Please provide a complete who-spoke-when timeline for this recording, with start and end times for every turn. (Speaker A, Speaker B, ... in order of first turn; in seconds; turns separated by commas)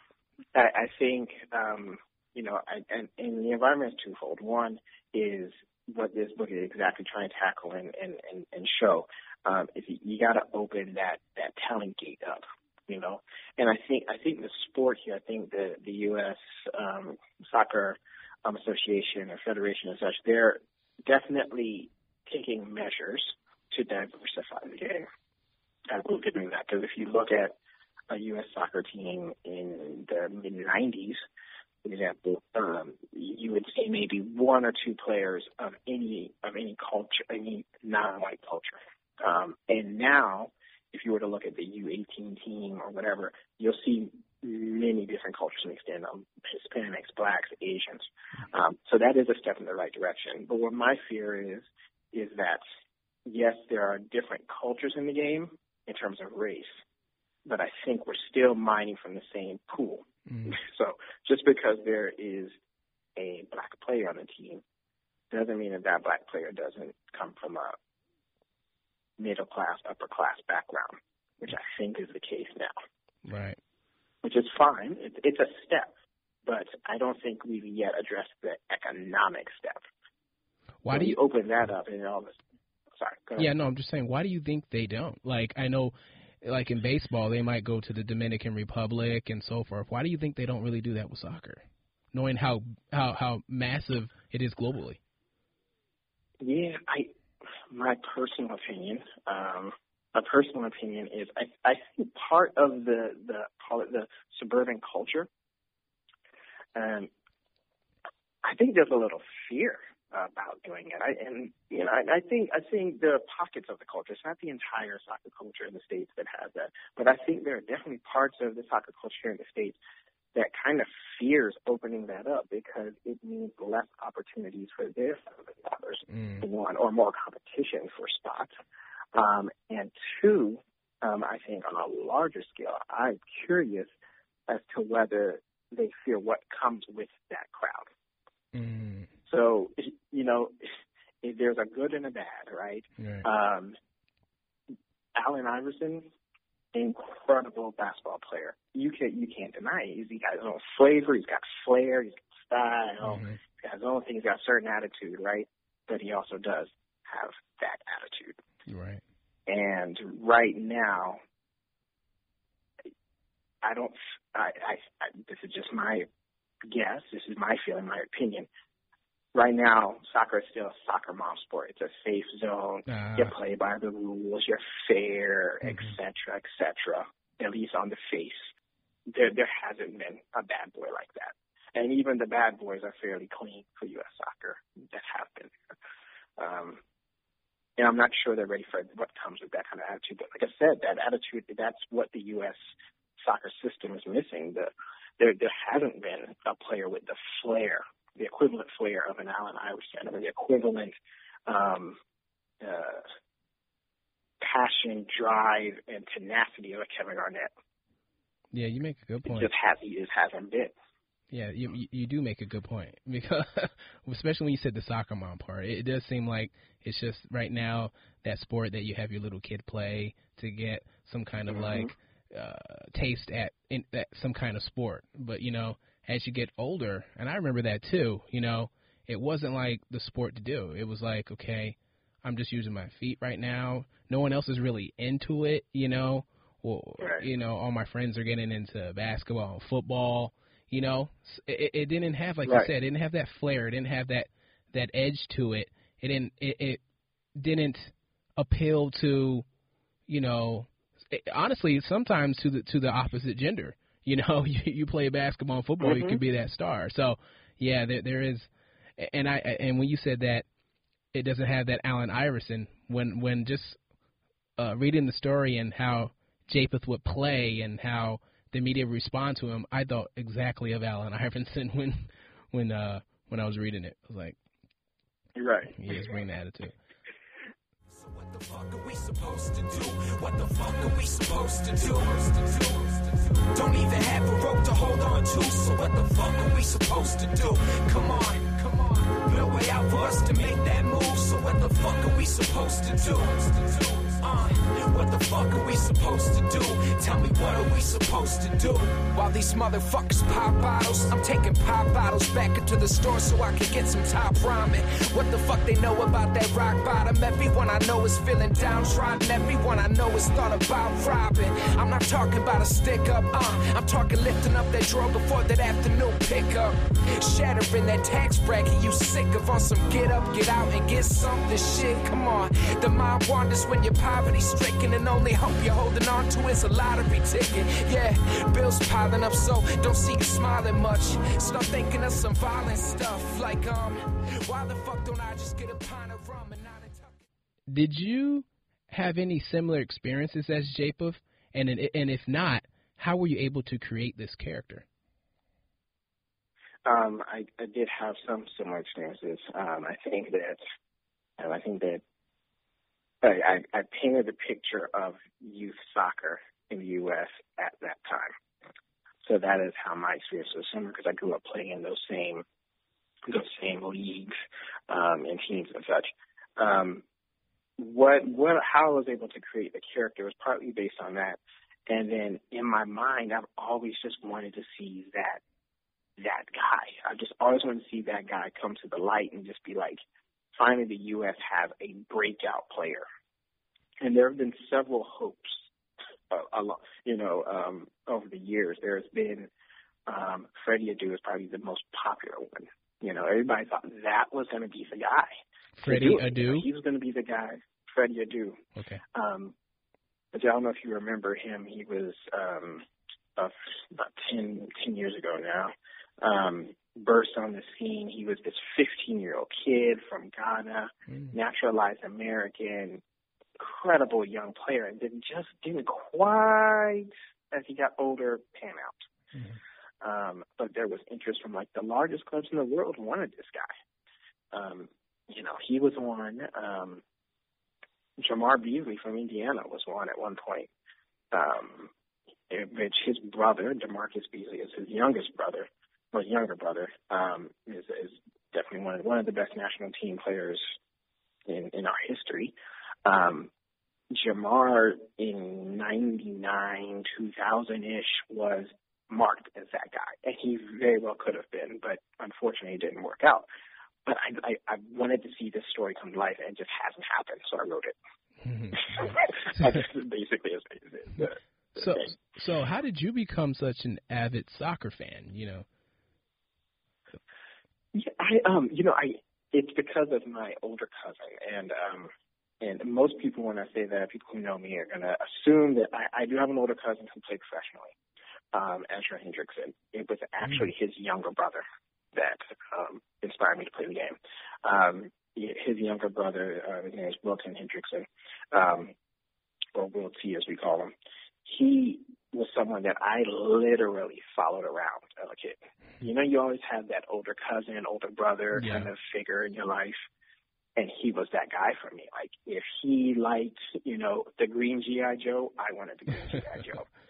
Speaker A: 0.5-25.1, Speaker A: 25.9-27.6, Speaker A: 28.1-31.2, Speaker A: 31.8-52.6, Speaker A: 53.3-56.8, Speaker A: 57.5-62.6, Speaker B: 60.3-60.6, Speaker A: 63.1-64.6, Speaker A: 65.3-67.8, Speaker A: 69.2-72.8, Speaker B: 73.2-73.6, Speaker A: 74.2-75.9, Speaker A: 76.5-79.9, Speaker B: 80.8-81.2, Speaker A: 80.9-82.4, Speaker A: 83.0-83.5, Speaker B: 83.4-91.6, Speaker B: 92.1-95.0, Speaker A: 96.4-97.1, Speaker A: 97.7-105.3, Speaker A: 106.8-107.1, Speaker A: 108.4-119.8, Speaker A: 120.3-128.5, Speaker B: 126.1-126.4, Speaker A: 129.1-133.9, Speaker A: 134.5-137.9, Speaker B: 138.5-139.1, Speaker A: 139.3-143.8, Speaker B: 143.0-143.2, Speaker A: 145.2-146.1, Speaker A: 146.7-158.4, Speaker B: 153.0-153.4, Speaker B: 158.7-159.0, Speaker A: 159.5-161.2, Speaker A: 163.6-166.1, Speaker A: 166.7-168.5, Speaker A: 169.3-178.5, Speaker B: 172.9-173.3, Speaker B: 175.6-176.0, Speaker A: 179.1-185.5, Speaker A: 186.4-186.8, Speaker A: 187.8-192.6, Speaker A: 193.2-200.9, Speaker A: 201.5-202.0, Speaker A: 202.6-203.1, Speaker A: 204.4-207.5, Speaker B: 208.5-209.5, Speaker A: 209.3-210.8, Speaker B: 211.3-246.8, Speaker A: 221.5-221.9, Speaker A: 237.0-237.3, Speaker B: 247.4-249.4, Speaker B: 250.1-260.4, Speaker A: 255.8-256.2, Speaker B: 261.1-263.8, Speaker B: 264.6-274.4, Speaker A: 275.4-276.0, Speaker B: 275.7-276.8, Speaker C: 277.9-337.2, Speaker B: 337.7-344.9, Speaker A: 346.9-350.6, Speaker A: 351.4-352.0, Speaker A: 353.2-358.3, Speaker A: 359.2-362.4, Speaker A: 363.3-364.4, Speaker A: 364.9-367.0, Speaker A: 367.8-375.4, Speaker A: 376.2-380.0, Speaker A: 380.6-383.1, Speaker A: 384.0-385.7, Speaker A: 386.3-389.5, Speaker A: 390.1-395.3, Speaker B: 395.8-396.7, Speaker A: 395.8-398.6, Speaker B: 398.8-399.0, Speaker A: 399.1-399.6, Speaker A: 400.3-402.9, Speaker A: 403.4-413.0, Speaker B: 411.1-411.3, Speaker A: 413.6-419.1, Speaker B: 419.3-419.6, Speaker A: 420.0-423.7, Speaker A: 424.5-427.0, Speaker A: 428.2-430.7, Speaker A: 431.3-431.9, Speaker A: 432.5-440.8, Speaker A: 441.5-443.5, Speaker A: 444.1-453.4, Speaker A: 454.1-457.9, Speaker B: 458.4-459.8, Speaker A: 458.8-462.1, Speaker B: 461.8-465.6, Speaker A: 467.9-477.9, Speaker A: 478.5-488.9, Speaker B: 480.4-480.7, Speaker A: 489.8-490.9, Speaker A: 491.4-500.0, Speaker B: 498.5-498.9, Speaker A: 500.8-506.9